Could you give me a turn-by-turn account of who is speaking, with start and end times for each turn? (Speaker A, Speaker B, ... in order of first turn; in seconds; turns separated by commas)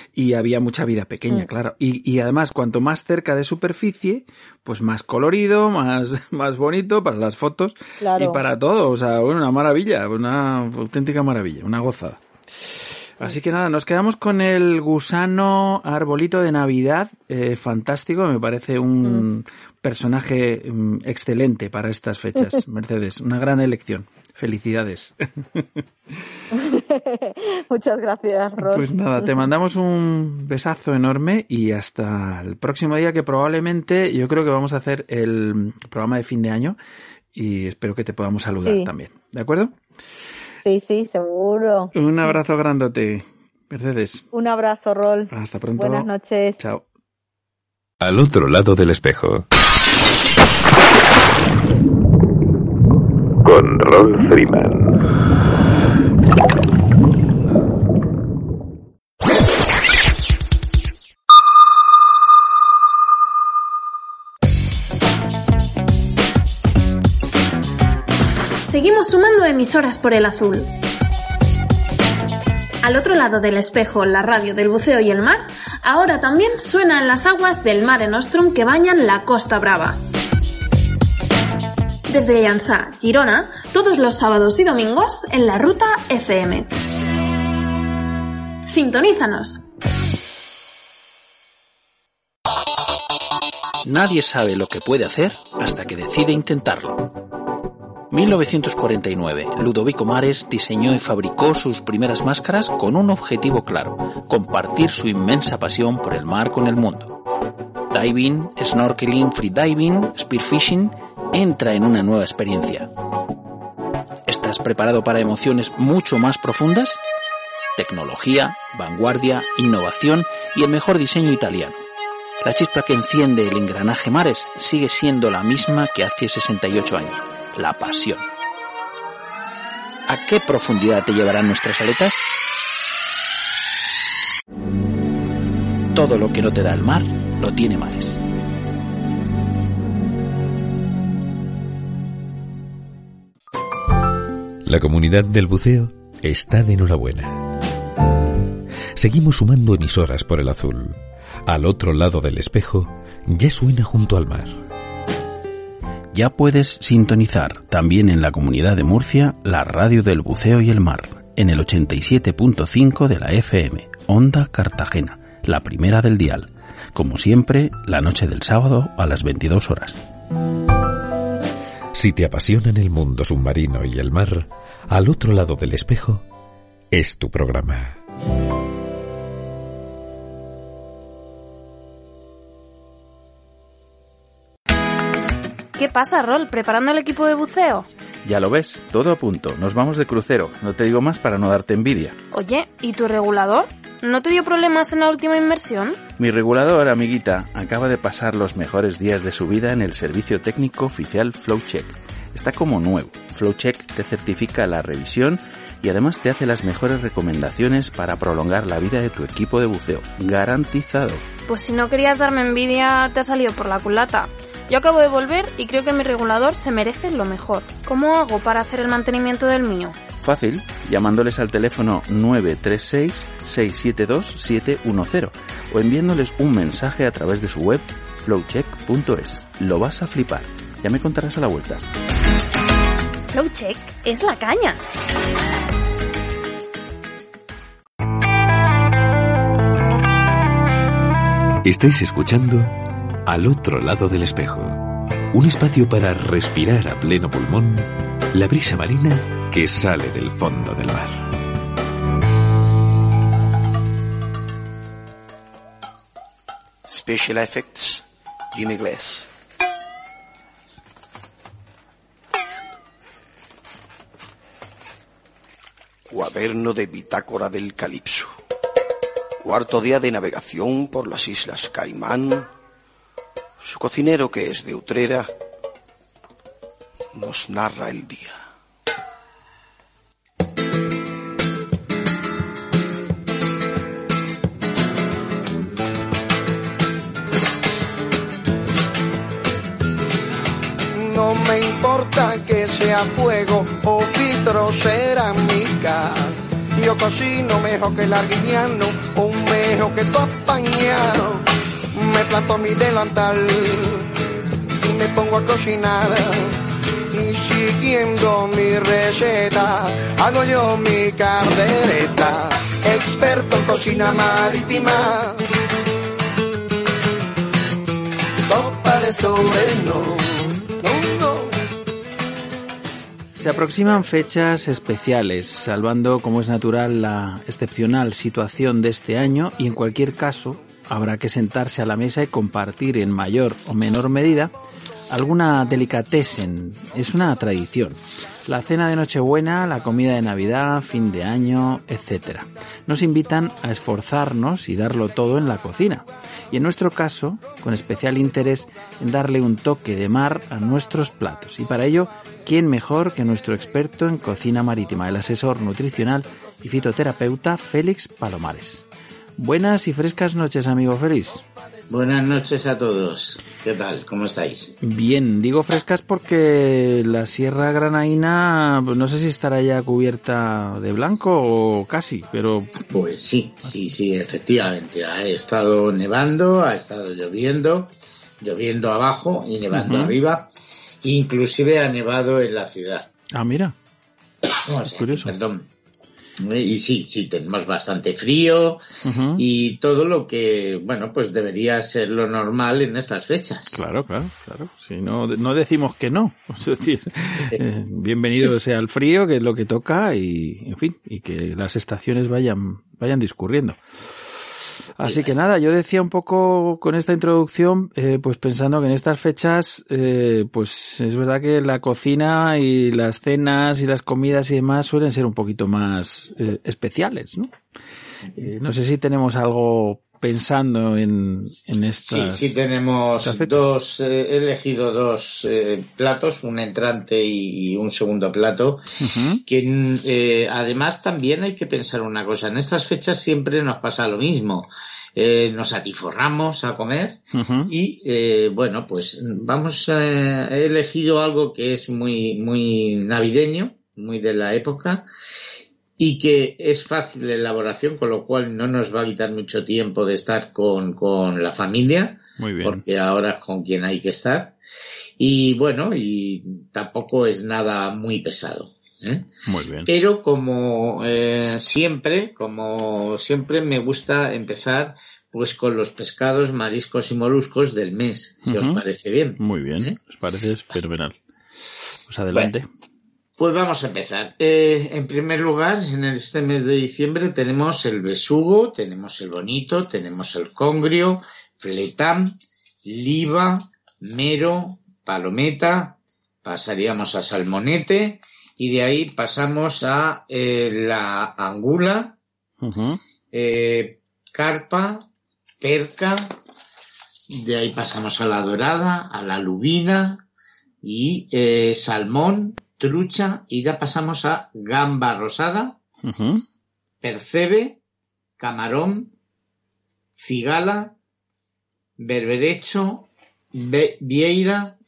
Speaker A: 0.1-12.2, Speaker B: 8.0-8.4, Speaker A: 13.2-25.8, Speaker B: 26.5-29.5, Speaker A: 28.6-36.8, Speaker A: 37.3-39.7, Speaker B: 38.6-38.9, Speaker B: 40.6-42.4, Speaker A: 41.9-44.3, Speaker B: 44.3-46.6, Speaker A: 45.3-46.8, Speaker C: 48.0-49.5, Speaker C: 53.5-55.0, Speaker D: 68.6-70.7, Speaker D: 72.8-80.0, Speaker D: 82.1-86.7, Speaker D: 88.7-89.6, Speaker A: 93.8-97.1, Speaker A: 98.1-107.2, Speaker A: 107.9-112.9, Speaker A: 114.3-117.0, Speaker A: 117.8-121.8, Speaker A: 122.4-128.2, Speaker A: 130.1-132.3, Speaker A: 135.9-138.2, Speaker C: 144.7-147.4, Speaker C: 149.0-154.6, Speaker A: 156.1-170.0, Speaker C: 171.9-176.2, Speaker C: 176.9-178.0, Speaker D: 185.8-187.9, Speaker A: 188.2-192.2, Speaker D: 192.3-196.0, Speaker A: 196.2-211.2, Speaker D: 211.5-220.0, Speaker A: 220.2-231.8, Speaker D: 233.3-234.8, Speaker C: 241.6-242.8, Speaker C: 243.3-244.8, Speaker C: 245.3-251.3, Speaker E: 256.9-259.3, Speaker E: 266.1-268.4, Speaker E: 269.4-272.5, Speaker E: 273.6-275.3, Speaker E: 277.1-278.4, Speaker F: 290.9-304.2, Speaker F: 304.8-315.4, Speaker F: 318.5-321.5, Speaker A: 323.4-334.5, Speaker A: 335.1-358.9, Speaker A: 359.4-361.4, Speaker G: 361.9-364.8, Speaker A: 364.8-372.7, Speaker G: 372.8-380.5, Speaker A: 379.7-380.2, Speaker G: 381.0-383.1, Speaker A: 383.3-383.8, Speaker G: 384.6-385.7, Speaker A: 384.9-385.4, Speaker G: 386.4-388.8, Speaker A: 389.0-389.4, Speaker G: 389.4-393.8, Speaker A: 393.7-403.8, Speaker A: 405.0-417.5, Speaker G: 405.0-405.3, Speaker A: 418.4-422.6, Speaker G: 422.1-428.9, Speaker A: 423.2-423.7, Speaker A: 429.0-429.4, Speaker G: 429.5-445.1, Speaker A: 437.3-437.7, Speaker G: 446.0-454.6, Speaker A: 452.4-452.9, Speaker G: 455.2-459.3, Speaker A: 459.5-459.9, Speaker G: 459.9-470.0, Speaker A: 468.4-468.8, Speaker A: 469.4-471.2, Speaker A: 472.1-472.7, Speaker G: 473.4-492.2, Speaker A: 492.6-493.0, Speaker G: 493.3-495.1, Speaker G: 495.6-496.4, Speaker G: 497.3-500.2, Speaker G: 500.8-505.8, Speaker A: 506.0-506.4, Speaker G: 507.0-507.8, Speaker G: 508.4-509.1, Speaker G: 510.2-510.9, Speaker G: 512.0-514.8